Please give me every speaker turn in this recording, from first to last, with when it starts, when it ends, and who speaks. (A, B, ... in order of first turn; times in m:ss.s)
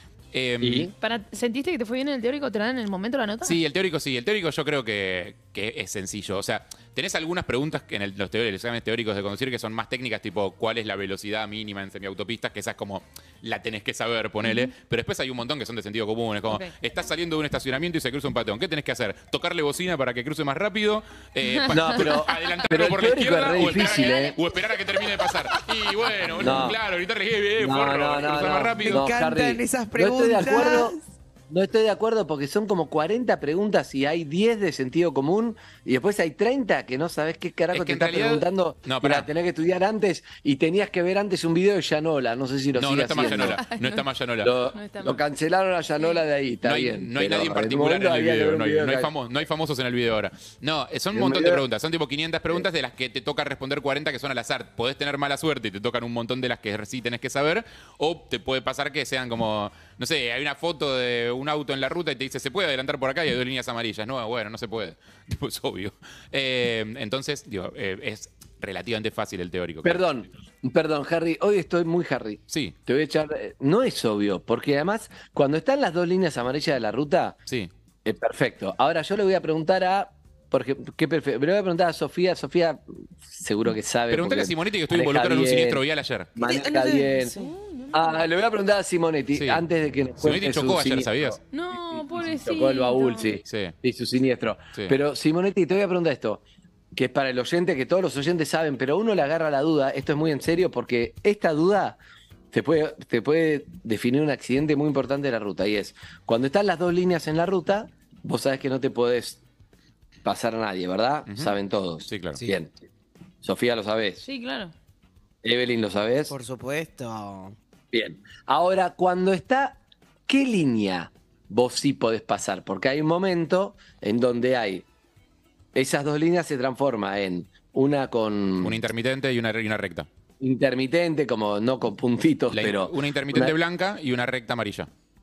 0:00.3-0:00.9 A
0:00.6-0:00.9 B
0:01.0-0:03.6 C
0:03.4-0:29.1 A
0:14.4-0:14.7 C
0:21.5-0:21.8 C
0:21.7-0:24.4 B
0:26.4-0:26.8 B
0:27.6-0:31.0 B
0:28.8-0:31.0 D
0:31.5-0:43.6 B
0:37.7-0:39.3 A
0:42.8-0:44.5 A
0:43.2-0:44.0 C
0:44.4-0:49.1 B
0:44.7-0:45.2 C
0:46.6-1:10.1 A
0:51.1-0:51.6 B
1:09.8-1:17.4 B
1:18.0-1:25.8 B
1:24.1-1:26.3 A
1:26.4-1:27.4 B
1:26.4-1:27.5 D
1:26.7-1:28.3 C
1:27.9-1:31.4 B
1:29.4-1:29.6 A
1:30.2-1:31.4 A
1:31.5-1:33.4 C
1:32.2-1:36.4 B
1:33.5-1:33.8 A
1:37.0-1:42.0 B
1:42.5-1:49.4 B
1:50.2-1:52.7 B
1:51.3-1:51.6 A
1:52.1-1:52.4 A
1:53.4-1:54.2 B
1:54.2-1:54.7 C
1:55.4-1:56.3 B
1:56.3-1:57.6 D
1:57.9-2:04.9 B
2:05.7-2:08.8 B
2:08.6-2:10.1 A
2:10.4-2:13.6 B
2:12.5-2:14.9 A